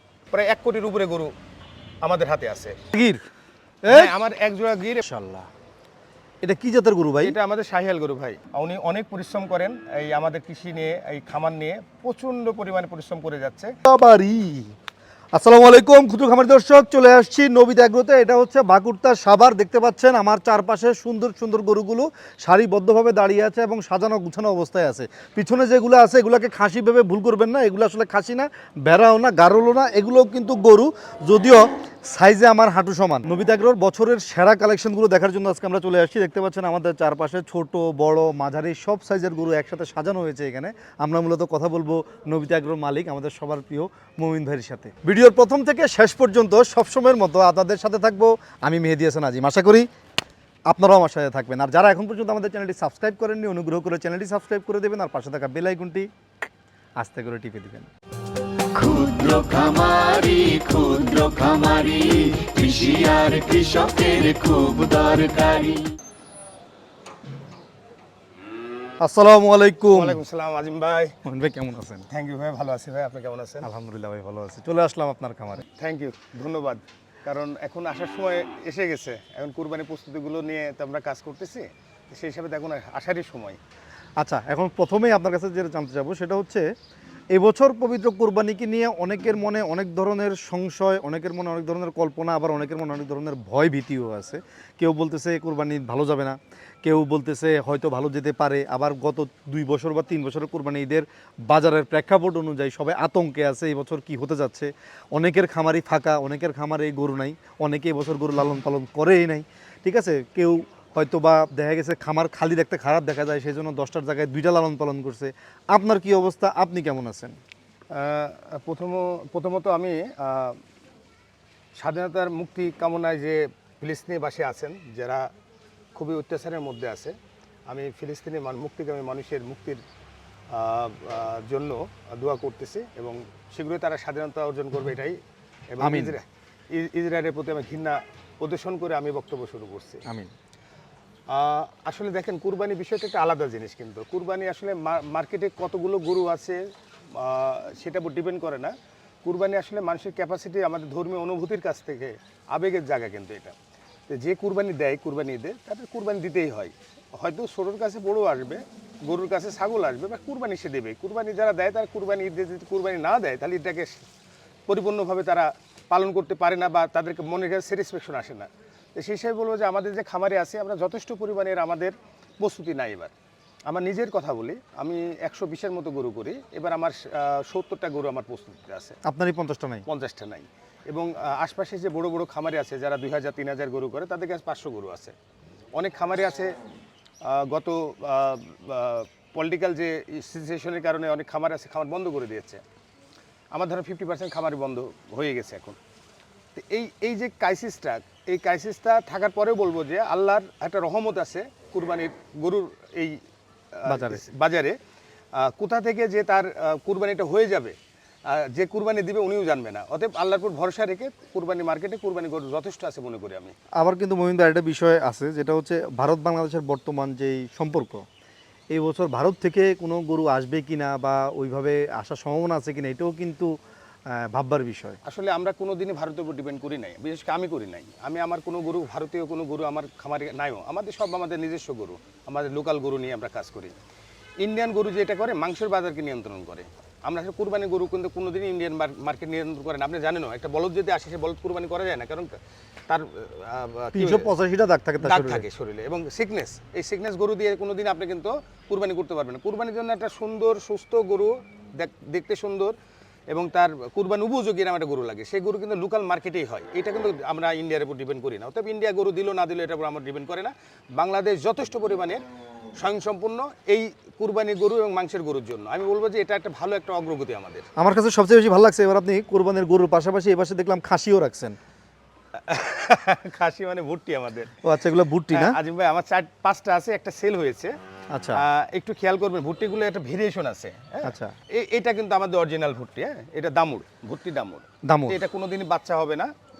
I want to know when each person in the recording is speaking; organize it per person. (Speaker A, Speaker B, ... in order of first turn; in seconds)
Speaker A: 0.3-1.3, 2.0-2.8, 3.9-5.0, 7.2-13.8, 69.9-71.2, 72.1-73.7, 75.8-83.6, 117.9-120.6, 121.8-125.3, 126.0-127.2, 127.7-129.8, 130.5-135.2, 135.7-140.0, 141.3-146.6, 147.1-153.6, 154.1-164.0, 164.7-173.1, 173.7-179.0, 179.9-185.1, 185.7-186.5, 187.2-192.6, 193.5-195.8, 196.5-203.2, 203.7-204.8, 205.3-213.6, 225.0-233.7, 234.4-242.4, 242.9-244.3, 245.0-252.7, 253.3-262.2, 262.8-267.7, 272.4-274.6, 275.3-277.7, 278.3-286.3
Speaker B: 2.9-3.2, 3.8-4.2, 5.0-5.5, 6.4-7.4, 13.8-14.7, 15.3-49.9, 50.7-56.1, 57.0-57.9, 69.0-70.2, 71.2-72.1, 73.6-75.7, 84.2-86.7, 87.3-117.4, 135.8-136.2, 140.1-140.3, 179.0-179.8, 203.9-204.2, 213.8-218.0, 218.7-223.5, 224.1-225.0, 243.9-245.4, 267.8-271.6, 274.6-275.6, 278.1-278.4, 281.0-281.3, 284.8-285.2
Speaker C: 58.7-65.8